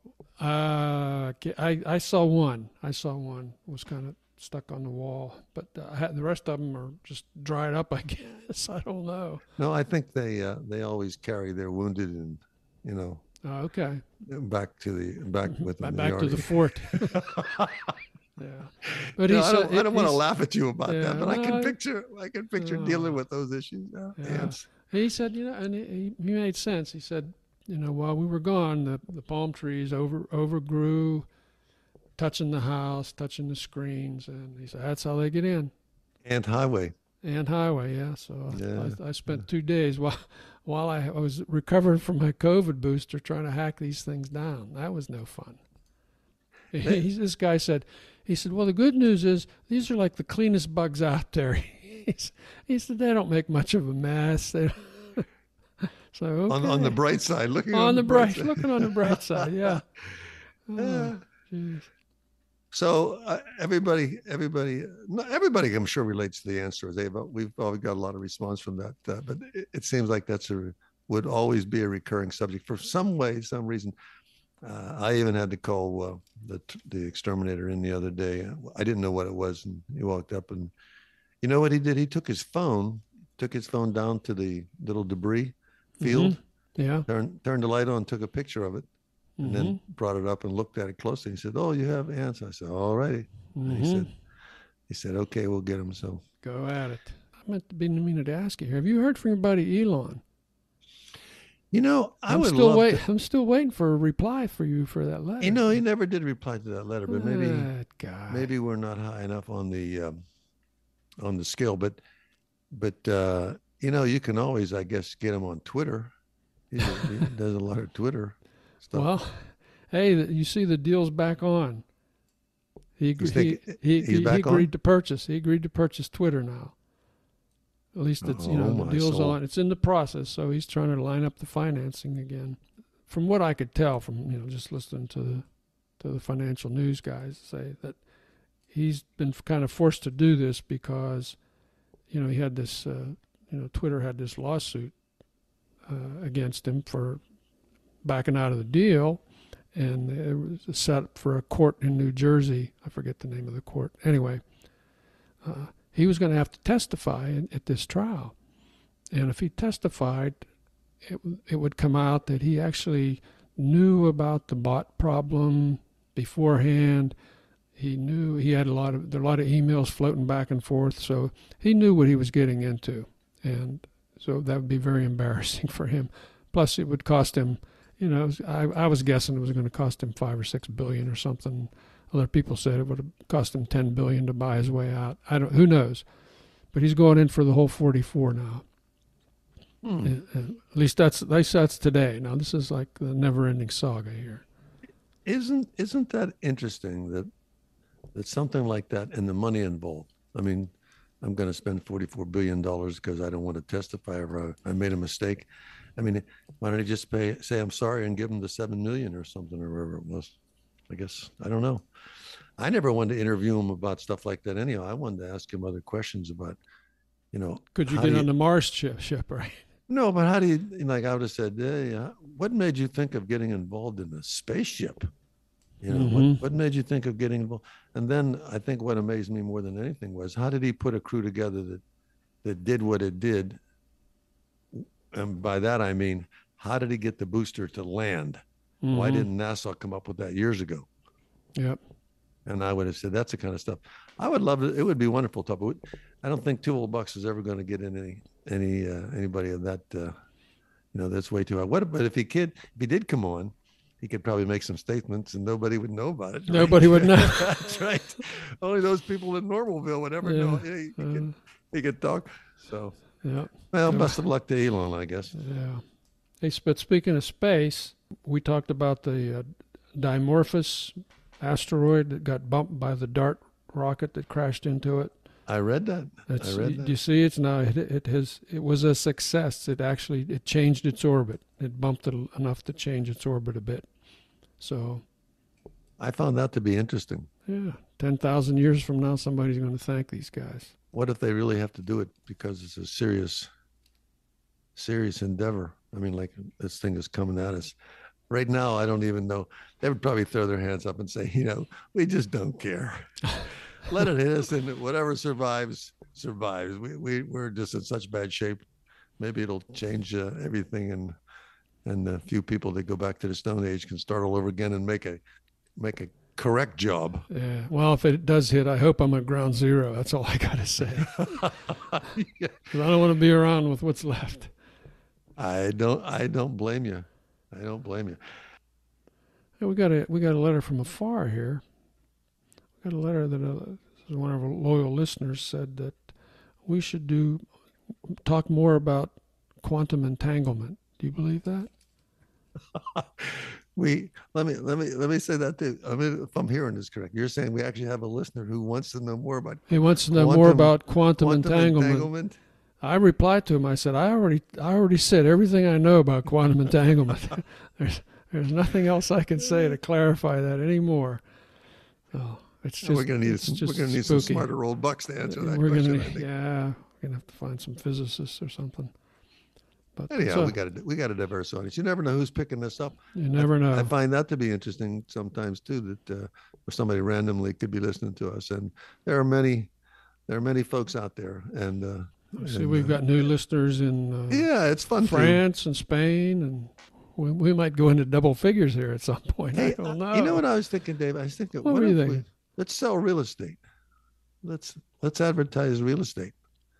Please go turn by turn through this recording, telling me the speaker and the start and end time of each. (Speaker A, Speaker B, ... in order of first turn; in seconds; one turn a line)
Speaker A: 0.4-9.4
Speaker B: 9.6-13.2
Speaker A: 13.4-14.0
Speaker B: 14.2-17.9
Speaker A: 15.5-17.3
Speaker A: 18.4-20.2
Speaker B: 19.0-24.6
Speaker A: 20.8-21.8
Speaker A: 22.6-23.2
Speaker A: 24.2-31.3
Speaker A: 32.2-35.7
Speaker B: 36.2-37.0
Speaker A: 37.2-45.6
Speaker B: 38.5-39.4
Speaker A: 46.7-55.3
Speaker A: 55.8-57.0
Speaker B: 56.5-61.1
Speaker A: 57.7-59.8
Speaker A: 60.7-61.9
Speaker B: 62.7-73.9
Speaker B: 74.6-80.7
Speaker B: 81.4-86.4
Speaker A: 86.0-87.0
Speaker B: 87.1-88.9
Speaker A: 89.4-89.8
Speaker B: 89.4-94.1
Speaker A: 93.5-94.1
Speaker B: 94.9-96.2
Speaker A: 96.4-100.2
Speaker B: 101.7-103.0
Speaker A: 102.3-105.7
Speaker B: 105.4-107.7
Speaker A: 107.1-108.5
Speaker B: 108.3-110.2
Speaker B: 111.2-112.0
Speaker B: 112.7-116.1
Speaker B: 116.7-119.1
Speaker A: 118.9-121.8
Speaker A: 123.0-126.8
Speaker B: 123.2-124.7
Speaker A: 127.9-138.0
Speaker B: 128.2-129.4
Speaker A: 138.7-141.4
Speaker A: 142.1-144.9
Speaker A: 145.8-147.2
Speaker A: 148.0-149.2
Speaker A: 149.7-154.4
Speaker A: 155.4-158.3
Speaker A: 159.1-160.4
Speaker A: 161.0-167.1
Speaker A: 167.8-186.1
Speaker A: 186.7-188.6
Speaker B: 189.8-190.1
Speaker A: 190.0-194.4
Speaker B: 195.2-197.3
Speaker B: 198.1-210.3
Speaker B: 210.9-211.8
Speaker B: 212.6-216.6
Speaker B: 217.3-218.3
Speaker A: 217.7-219.6
Speaker B: 219.9-225.1
Speaker B: 225.8-231.8
Speaker A: 225.9-226.4
Speaker B: 232.4-233.6
Speaker B: 234.7-240.9
Speaker A: 238.8-239.3
Speaker B: 242.4-250.1
Speaker B: 250.9-262.9
Speaker A: 256.5-257.6
Speaker A: 260.2-261.4
Speaker A: 263.2-264.2
Speaker B: 263.7-265.3
Speaker A: 265.3-265.8
Speaker A: 266.4-275.1
Speaker B: 275.5-276.9
Speaker A: 276.3-283.9
Speaker A: 284.6-285.0
Speaker B: 286.0-287.3
Speaker A: 287.4-290.7
Speaker B: 290.9-293.5
Speaker B: 294.8-297.8
Speaker B: 298.3-308.6
Speaker B: 309.2-311.1
Speaker B: 311.8-315.2
Speaker B: 315.8-317.3
Speaker A: 317.3-321.5
Speaker B: 321.0-322.7
Speaker A: 322.7-324.5
Speaker B: 325.4-328.2
Speaker A: 329.6-331.6
Speaker A: 332.8-336.1
Speaker A: 336.6-337.4
Speaker A: 338.2-341.7
Speaker B: 342.7-352.4
Speaker A: 349.7-352.1
Speaker A: 352.8-361.2
Speaker A: 362.1-364.5
Speaker B: 362.8-366.3
Speaker A: 365.2-368.9
Speaker A: 369.9-370.6
Speaker B: 370.1-379.7
Speaker A: 373.1-373.9
Speaker B: 380.3-383.0
Speaker A: 382.4-390.4
Speaker B: 384.3-385.4
Speaker B: 389.5-393.6
Speaker A: 391.6-392.2
Speaker B: 394.4-396.3